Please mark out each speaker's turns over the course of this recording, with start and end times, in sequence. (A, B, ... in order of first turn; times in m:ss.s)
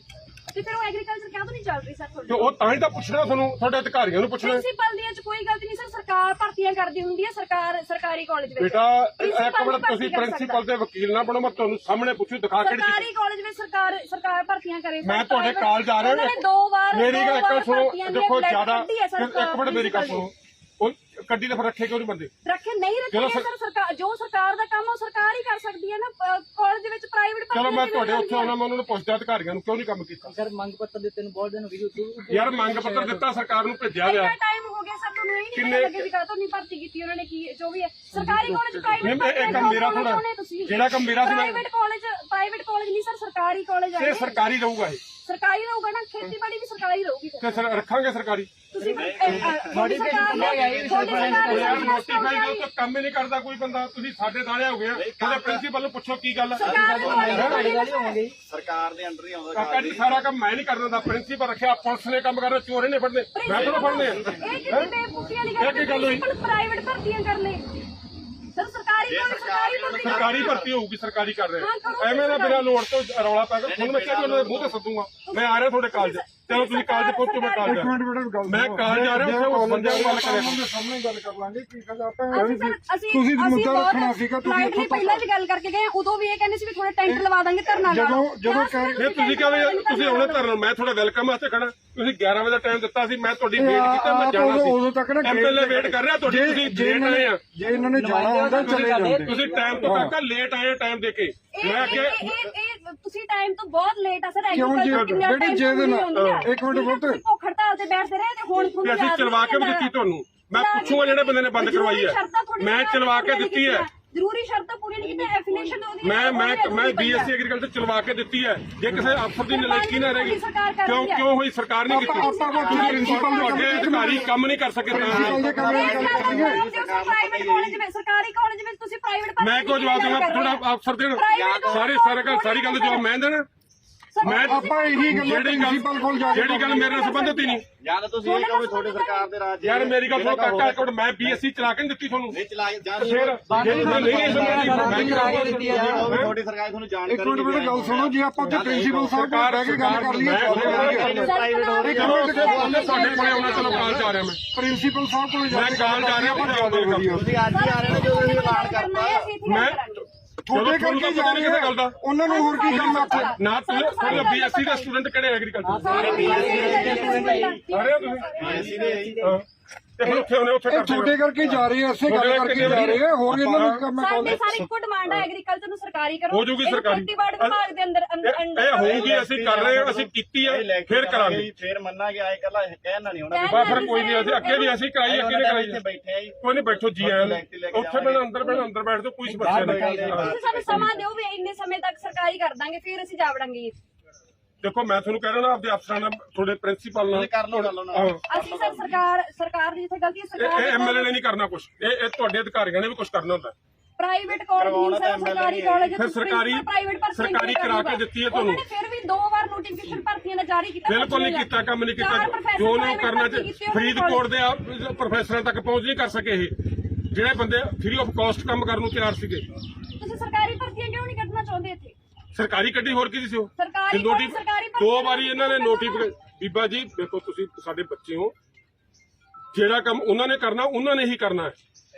0:00.5-0:02.5 A
0:02.3-0:04.6 B
0:04.4-0:10.6 A
0:08.6-0:13.0 B
0:12.6-0:20.3 A
0:15.0-0:16.4 B
0:16.9-0:22.3 B
0:22.4-0:28.5 A
0:23.1-0:23.5 B
0:27.5-0:30.3 B
0:30.2-0:33.2 C
0:32.3-0:34.3 B
0:34.0-0:44.4 A
0:35.5-0:36.1 B
0:38.1-0:39.1 C
0:39.0-0:41.6 B
0:44.0-0:45.0 B
0:45.2-0:47.6 A
0:47.4-0:48.5 B
0:48.7-0:52.7 A
0:48.8-0:52.0 C
0:48.9-0:52.2 D
0:51.4-0:57.6 B
0:54.9-0:55.7 D
0:56.5-0:58.2 A
0:56.6-0:57.8 D
0:56.6-0:58.4 C
0:58.4-1:00.3 D
0:59.5-1:04.9 B
1:03.3-1:07.6 A
1:03.4-1:04.7 D
1:04.3-1:04.6 C
1:05.6-1:06.2 B
1:08.5-1:10.5 A
1:09.0-1:10.8 D
1:10.0-1:17.9 B
1:11.6-1:12.7 A
1:13.6-1:14.8 D
1:15.2-1:17.9 A
1:17.6-1:25.2 E
1:18.4-1:20.6 B
1:22.3-1:30.4 A
1:27.0-1:29.1 E
1:29.0-1:37.4 B
1:33.6-1:40.1 E
1:37.9-1:39.8 C
1:38.6-1:42.3 B
1:41.5-1:49.9 A
1:41.9-1:42.5 D
1:44.5-1:47.2 E
1:44.9-1:45.3 B
1:46.1-1:46.5 B
1:48.6-1:53.9 B
1:50.5-1:57.3 A
1:55.0-1:55.8 D
1:56.0-2:05.4 B
1:59.5-2:01.3 A
2:01.9-2:04.3 E
2:02.0-2:04.2 A
2:04.9-2:06.6 E
2:04.9-2:07.8 D
2:05.4-2:13.1 A
2:09.4-2:13.5 B
2:11.3-2:11.9 D
2:14.1-2:15.3 A
2:14.2-2:17.6 B
2:14.2-2:17.0 E
2:16.7-2:17.6 A
2:17.8-2:21.4 D
2:18.2-2:19.3 A
2:19.6-2:22.4 B
2:22.3-2:29.1 D
2:23.0-2:26.3 B
2:23.4-2:26.1 C
2:27.0-2:33.1 E
2:29.0-2:31.2 B
2:30.4-2:34.1 D
2:31.0-2:34.1 A
2:31.9-2:34.4 B
2:34.5-2:37.3 E
2:35.5-2:37.2 B
2:37.1-2:39.3 D
2:37.5-2:40.1 A
2:39.4-2:42.0 B
2:40.4-2:43.4 E
2:42.2-2:44.9 A
2:42.6-2:47.0 B
2:45.6-2:47.6 C
2:45.8-2:49.0 A
2:45.9-2:47.4 D
2:47.7-2:48.3 B
2:48.4-2:49.3 D
2:48.4-2:49.3 C
2:49.2-2:49.4 B
2:50.0-2:53.9 B
2:50.0-2:54.6 E
2:52.7-2:54.6 D
2:53.9-2:59.1 A
2:56.3-2:57.6 B
2:58.2-3:01.5 B
2:58.8-3:08.7 D
3:03.3-3:04.8 A
3:03.5-3:05.8 B
3:06.4-3:10.3 B
3:09.2-3:11.0 C
3:09.4-3:10.9 D
3:10.1-3:13.7 A
3:14.6-3:18.2 B
3:17.1-3:19.0 D
3:18.3-3:21.1 A
3:20.4-3:23.5 B
3:24.0-3:34.3 A
3:24.5-3:25.9 D
3:25.9-3:28.6 B
3:30.9-3:39.5 B
3:40.0-3:42.0 A
3:42.3-3:48.3 B
3:43.6-3:46.1 A
3:49.5-3:51.6 B